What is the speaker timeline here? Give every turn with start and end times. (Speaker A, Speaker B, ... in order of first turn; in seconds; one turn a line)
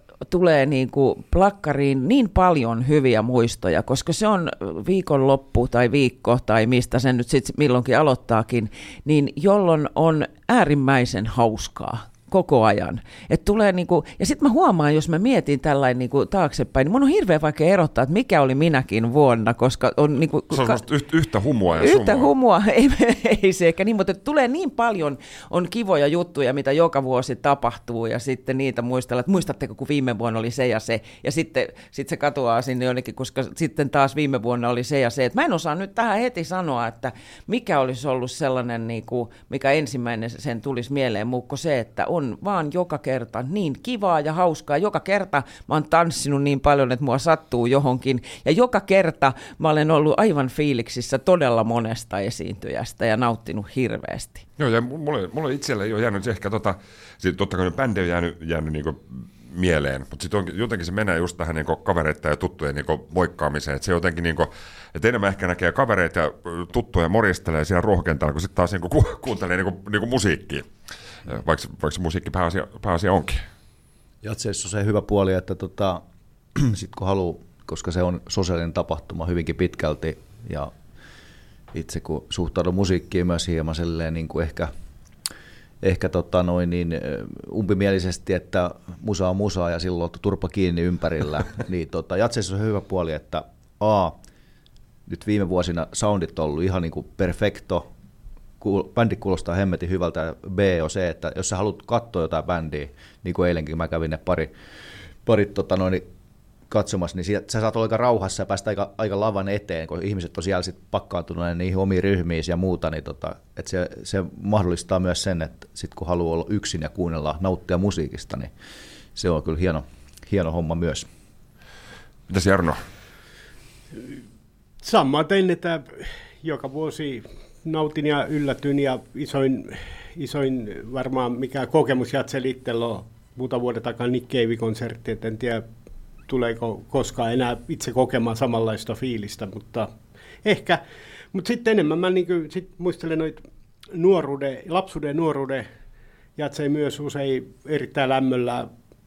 Speaker A: 0.3-20.8
Speaker B: 20.5-22.3
Speaker A: 21.8-54.4
Speaker B: 54.6-70.7
Speaker B: 71.3-73.4
Speaker C: 74.2-76.0
Speaker C: 76.5-80.7
Speaker C: 81.7-84.7
Speaker C: 85.8-94.2
Speaker C: 95.1-97.9
Speaker C: 98.6-104.5
Speaker C: 105.2-106.0
Speaker C: 106.7-118.5
Speaker C: 119.2-121.1
Speaker B: 122.3-122.8
Speaker D: 124.8-135.7
Speaker D: 136.3-139.9
Speaker D: 140.4-140.8
Speaker D: 141.3-143.4
Speaker D: 143.9-145.7
Speaker D: 146.4-148.7